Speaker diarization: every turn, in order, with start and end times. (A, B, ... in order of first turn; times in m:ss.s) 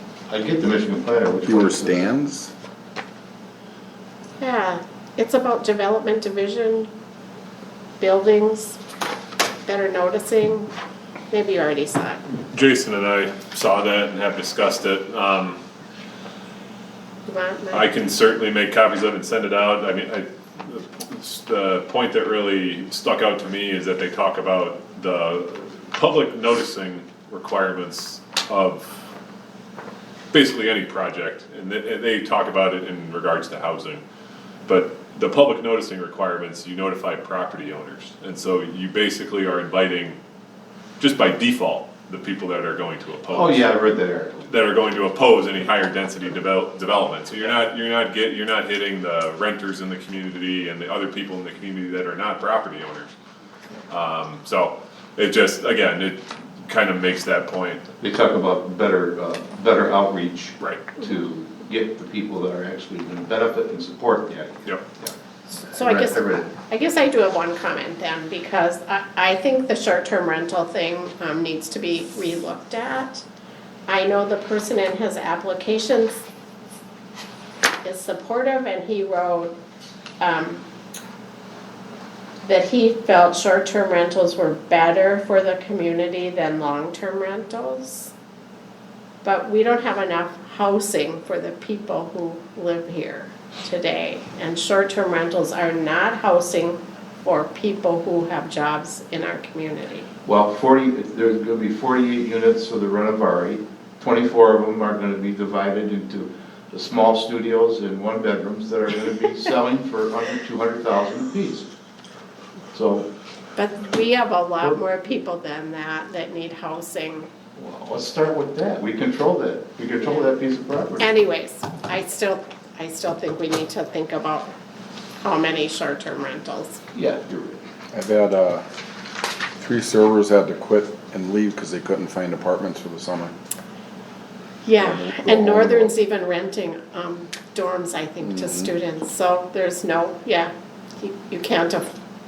0:00.3-0:02.1 A
0:01.4-0:02.5 B
0:04.4-0:06.9 C
0:08.0-0:08.8 C
0:09.7-0:10.7 C
0:11.3-0:12.2 C
0:12.5-0:15.6 D
0:17.3-0:17.9 C
0:17.7-0:29.1 D
0:30.3-0:34.0 D
0:34.7-0:40.2 D
0:41.0-0:43.7 D
0:43.3-0:44.4 A
0:44.5-0:53.1 D
0:53.9-0:57.8 D
0:58.0-1:05.1 A
1:00.6-1:01.0 D
1:05.6-1:13.2 C
1:05.7-1:06.5 A
1:13.9-1:16.2 C
1:17.8-1:19.6 C
1:20.2-1:20.6 C
1:22.4-1:28.1 C
1:29.2-1:40.1 C
1:40.3-1:51.7 A
1:52.7-1:53.1 A
1:53.6-1:57.3 C
1:57.6-2:01.1 A
2:01.0-2:04.5 C
2:05.2-2:06.8 C
2:06.9-2:07.6 A
2:07.9-2:08.6 B
2:09.6-2:13.3 B
2:14.6-2:22.0 C
2:14.8-2:15.9 B
2:18.2-2:18.7 B